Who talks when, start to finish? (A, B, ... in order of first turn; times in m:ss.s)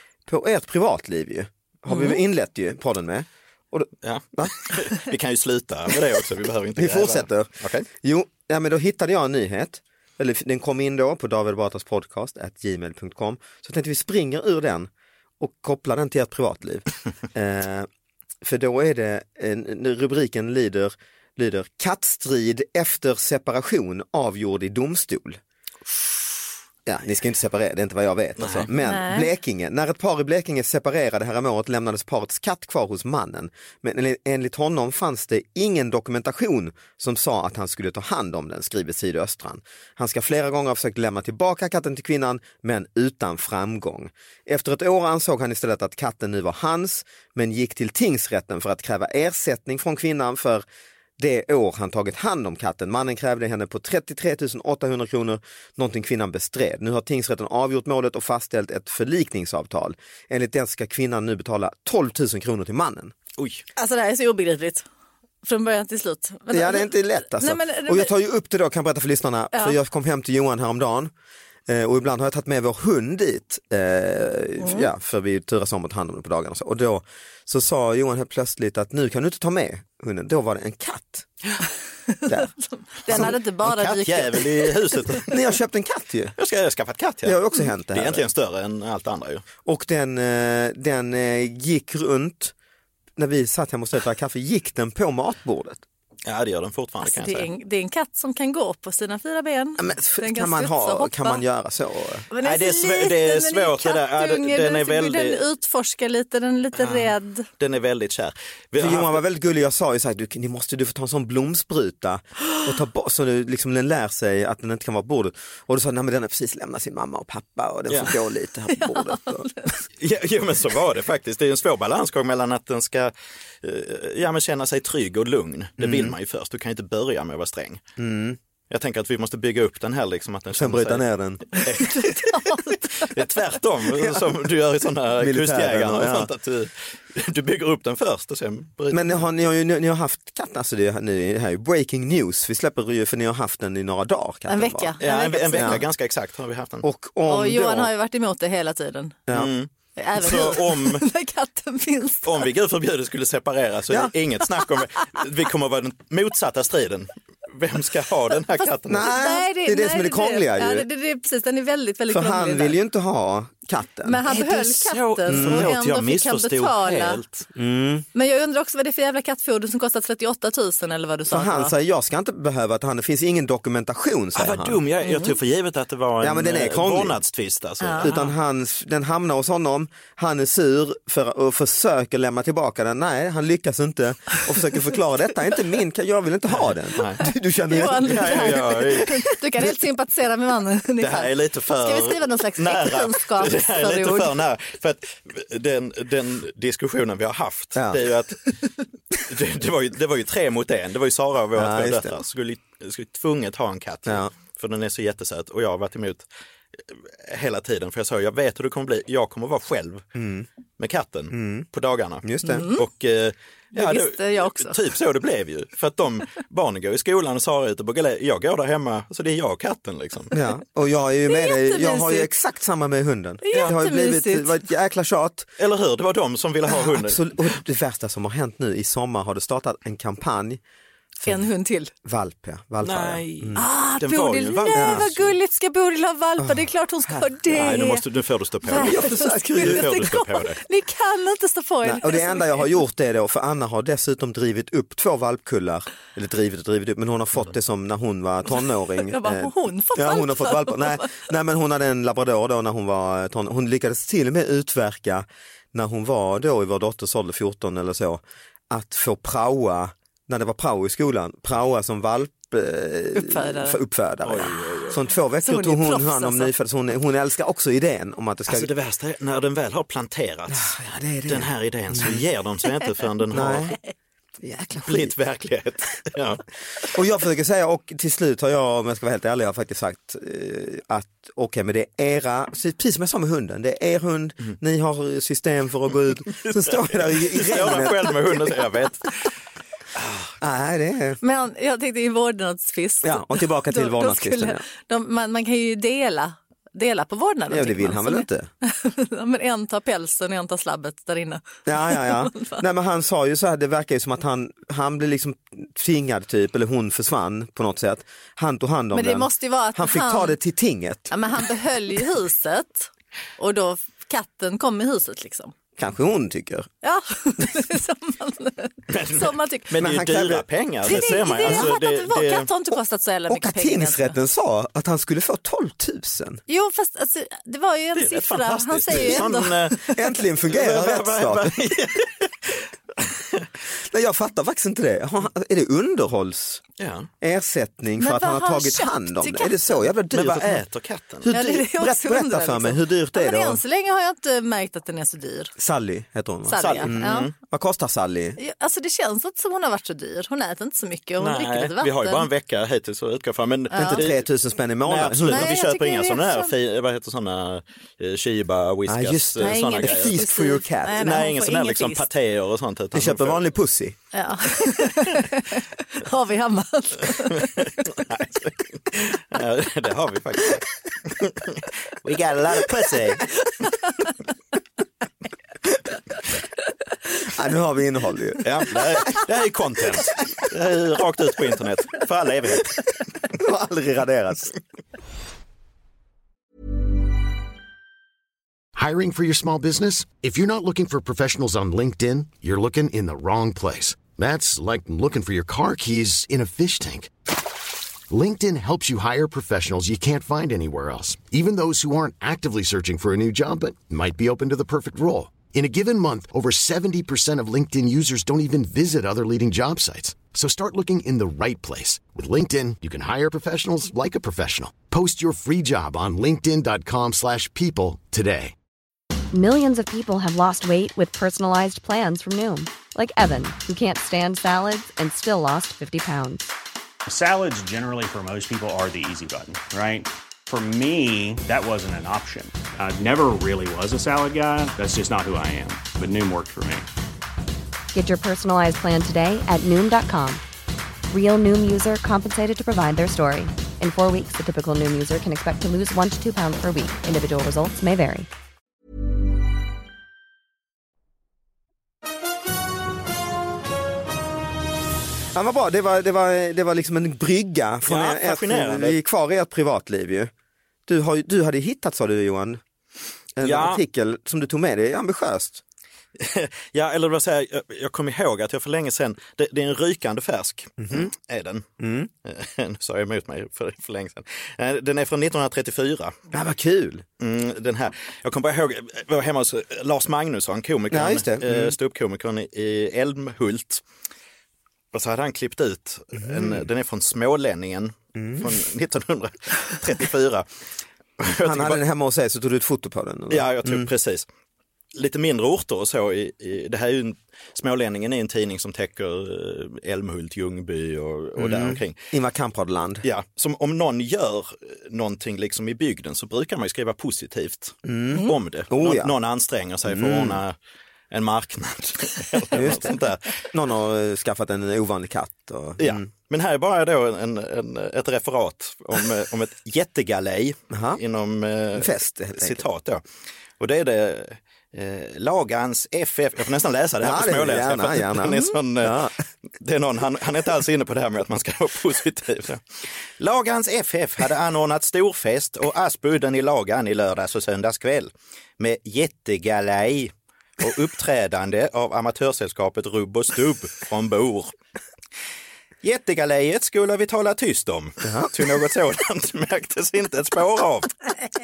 0:00.3-0:04.5 A
0:01.9-0:02.2 B
0:04.0-0:07.8 C
0:06.8-0:14.9 A
0:15.4-0:17.9 A
0:18.4-0:25.4 A
0:26.8-0:50.6 A
0:28.4-0:28.7 C
0:28.8-0:29.3 B
0:51.2-1:03.1 A
1:03.4-1:03.6 C
1:03.8-1:04.8 B
1:05.4-1:08.1 B
1:06.5-1:11.1 A
1:11.7-1:21.3 A
1:14.6-1:14.9 B
1:22.1-1:25.2 B
1:23.1-1:25.4 C
1:23.1-1:23.3 A
1:25.3-1:26.3 A
1:26.4-1:29.4 C
1:27.2-1:28.2 A
1:29.6-1:32.5 A
1:33.2-1:35.8 A
1:36.2-1:37.5 C
1:37.0-1:41.4 B
1:39.8-1:42.3 A
1:42.3-1:47.5 B
1:42.4-1:45.4 C
1:46.8-1:49.2 C
1:48.8-1:59.7 A
1:58.7-1:59.7 B
2:00.0-2:03.1 C
2:03.6-2:07.8 C
2:05.8-2:06.1 A
2:08.0-2:08.4 A
2:08.7-2:12.5 C
2:10.6-2:11.5 A
2:11.6-2:13.1 B
2:13.0-2:19.2 C
2:15.2-2:16.3 A
2:18.9-2:25.0 A
2:24.5-2:25.8 B
2:25.0-2:26.8 C
2:25.5-2:25.8 A
2:26.8-2:27.9 A
2:27.3-2:29.2 B
2:29.3-2:31.0 C
2:30.0-2:32.5 B
2:32.2-2:39.1 C
2:38.6-2:42.8 B
2:38.9-2:40.8 A
2:42.1-2:44.2 A
2:44.0-2:47.2 B
2:44.3-2:47.4 C
2:45.3-2:45.7 A
2:47.5-2:48.0 A
2:48.1-2:51.7 B
2:51.3-2:54.8 A
2:54.3-2:58.2 C
2:55.0-2:55.4 B
2:56.2-2:57.2 A
2:57.8-2:58.3 B
2:58.0-3:08.6 A
3:06.5-3:07.2 C
3:07.7-3:14.3 B
3:07.9-3:09.2 C
3:11.0-3:26.2 C
3:17.7-3:18.0 A
3:21.5-3:22.2 A
3:24.0-3:24.3 A
3:26.9-3:30.0 C
3:30.1-3:30.5 A
3:30.8-3:40.3 C
3:31.3-3:31.7 A
3:32.2-3:32.7 A
3:32.4-3:32.8 B
3:33.7-3:34.8 B
3:40.3-3:45.5 A
3:41.2-3:42.3 B
3:43.4-3:44.5 B
3:45.6-3:47.5 C
3:46.7-3:50.6 A
3:51.2-3:51.9 B
3:52.0-3:53.6 A
3:52.8-3:55.1 C
3:53.6-3:58.0 B
3:54.7-3:55.2 A
3:56.4-3:57.3 A
3:57.5-4:00.6 C
3:58.6-4:02.7 B
3:58.8-3:59.9 A
4:01.8-4:28.7 A
4:09.0-4:11.2 B
4:23.2-4:23.8 B
4:24.2-4:25.0 C
4:25.4-4:26.5 B
4:28.5-4:33.7 C
4:30.5-4:32.2 A
4:33.3-4:33.8 A
4:34.4-4:35.1 A
4:34.8-4:36.8 C
4:36.9-4:48.2 A
4:46.3-4:49.3 C
4:50.0-4:50.3 C
4:50.4-4:51.2 A
4:51.2-5:02.6 B
4:53.0-4:54.6 A
4:57.5-4:58.5 A
5:01.6-5:11.1 A
5:08.9-5:10.4 B
5:11.1-5:15.5 B
5:15.8-5:16.7 A
5:16.8-5:19.7 B
5:18.9-5:22.5 C
5:19.8-5:20.4 A
5:20.8-5:24.1 B
5:21.4-5:21.7 A
5:23.3-5:26.4 A
5:26.5-5:30.0 B
5:27.9-5:29.8 C
5:28.9-5:29.2 A
5:29.9-5:31.6 A
5:30.5-5:33.4 C
5:33.8-5:36.6 A
5:36.8-5:37.1 C
5:37.2-5:40.6 A
5:38.0-5:39.8 B
5:40.1-5:41.3 C
5:41.2-5:43.6 A
5:41.3-5:45.5 B
5:45.6-5:48.4 A
5:46.5-5:47.3 B
5:46.6-5:47.3 C
5:48.4-5:52.3 B
5:51.2-5:54.2 C
5:53.7-5:54.0 B
5:53.8-5:55.5 A
5:54.8-6:00.2 C
5:55.3-5:56.5 B
5:58.9-6:01.1 A
5:59.4-6:02.0 B
6:01.0-6:03.4 C
6:02.9-6:04.0 A
6:04.1-6:07.8 B
6:07.9-6:13.3 C
6:17.3-6:19.2 A
6:18.4-6:22.8 C
6:23.3-6:24.5 A
6:28.7-6:37.1 D
6:38.1-6:58.5 D
6:59.3-7:06.5 E
7:07.0-7:16.9 F
7:17.9-7:20.4 E
7:21.1-7:28.3 E
7:35.3-7:40.3 A
7:37.8-7:39.0 C
7:40.9-7:42.6 A
7:43.4-7:45.6 A
7:43.4-7:43.8 C
7:46.2-7:51.7 C
7:50.8-7:51.1 A
7:51.8-7:52.1 A
7:52.2-7:56.2 C
7:56.3-7:57.0 A
7:57.2-8:03.8 C
8:00.9-8:01.7 A
8:04.9-8:10.4 C
8:06.2-8:06.6 A
8:08.2-8:08.4 A
8:11.2-8:11.8 C
8:11.4-8:13.9 A
8:13.3-8:14.2 C
8:14.9-8:22.0 C
8:21.4-8:23.0 A
8:23.0-8:30.6 C
8:27.8-8:29.1 A
8:29.9-8:30.4 A
8:31.1-8:33.4 C
8:32.5-8:36.1 A
8:35.8-8:43.0 C
8:40.7-8:41.0 A
8:41.7-8:42.6 A
8:43.6-8:49.1 C
8:47.0-8:49.1 A
8:49.6-9:04.5 C
9:05.8-9:11.0 C
9:08.0-9:08.3 A